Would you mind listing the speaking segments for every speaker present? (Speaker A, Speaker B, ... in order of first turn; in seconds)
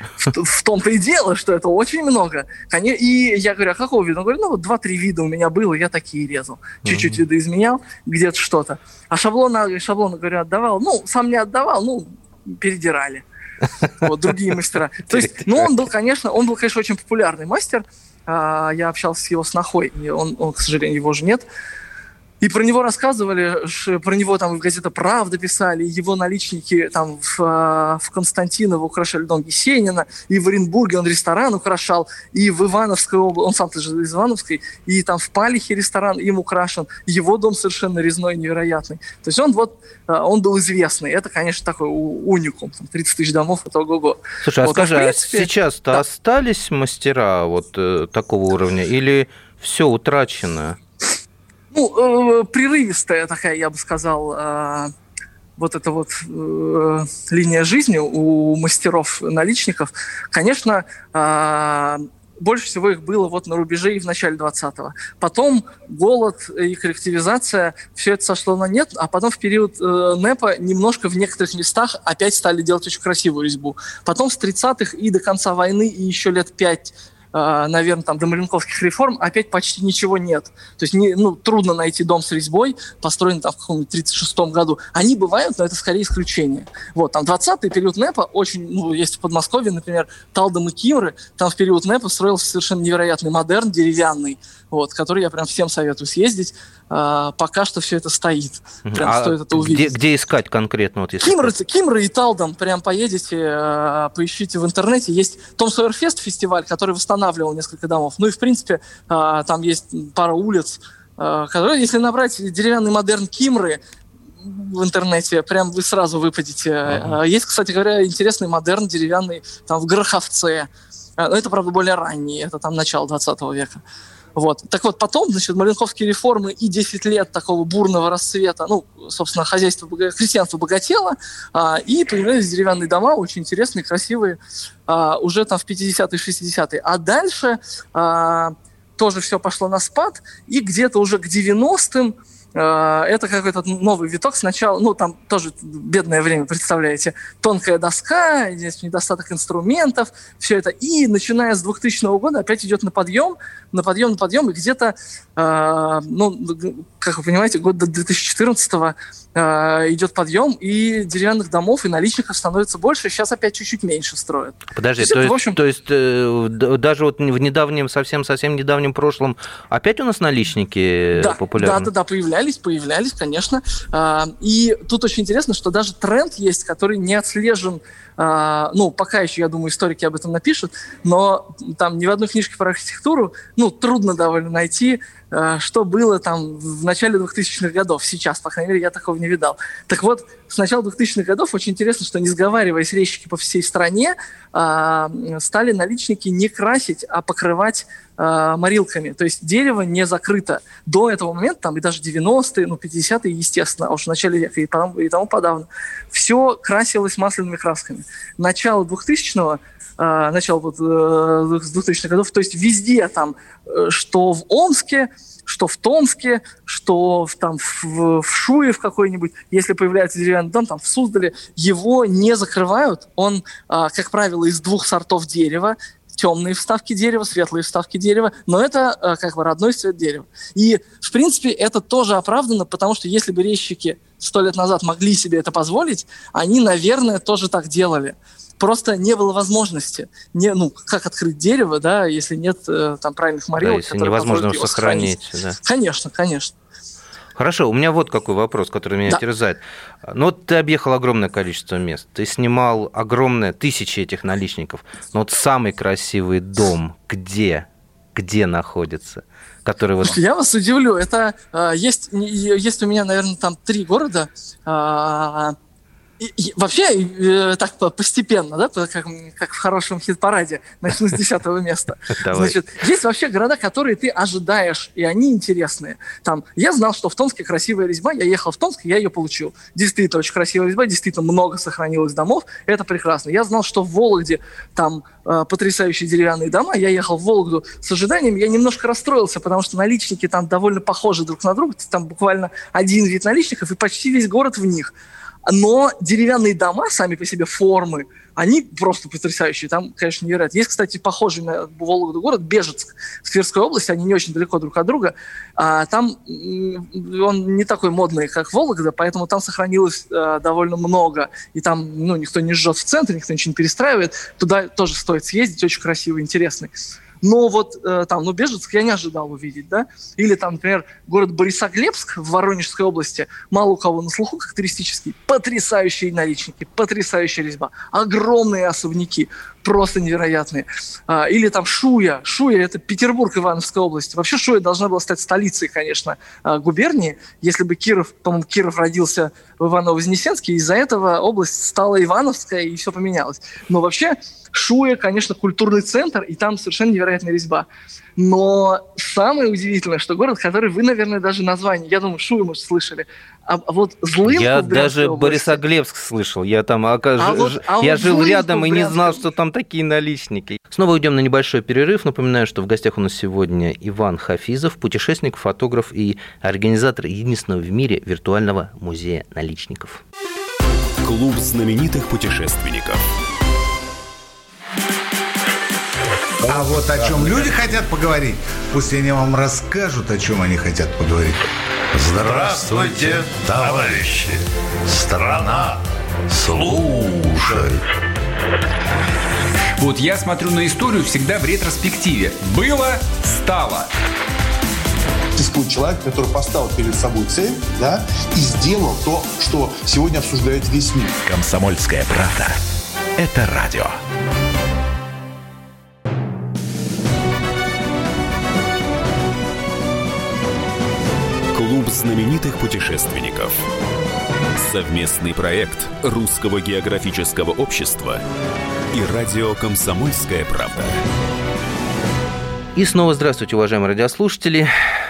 Speaker A: 0.2-13.2, 14.0-21.5, 22.4-46.0, 51.7-54.9, 55.6-99.9, 101.2-113.8, 114.4-123.8, 124.4-165.6, 171.2-246.5, 260.0-265.6, 266.2-294.9, 295.5-316.7, 317.2-355.6, 357.2-359.2
Speaker B: 6.8-7.2, 15.1-15.6, 44.4-50.8, 98.9-101.5, 116.9-117.2, 164.8-171.9, 243.6-245.6, 247.4-260.2, 272.2-272.6, 354.2-370.0, 422.8-424.7
Speaker C: 371.0-373.0, 411.5-413.7, 414.6-418.2, 418.9-421.0
Speaker D: 376.4-387.8
Speaker E: 389.8-393.9
Speaker F: 395.4-401.2
Speaker G: 401.2-402.6, 403.2-404.0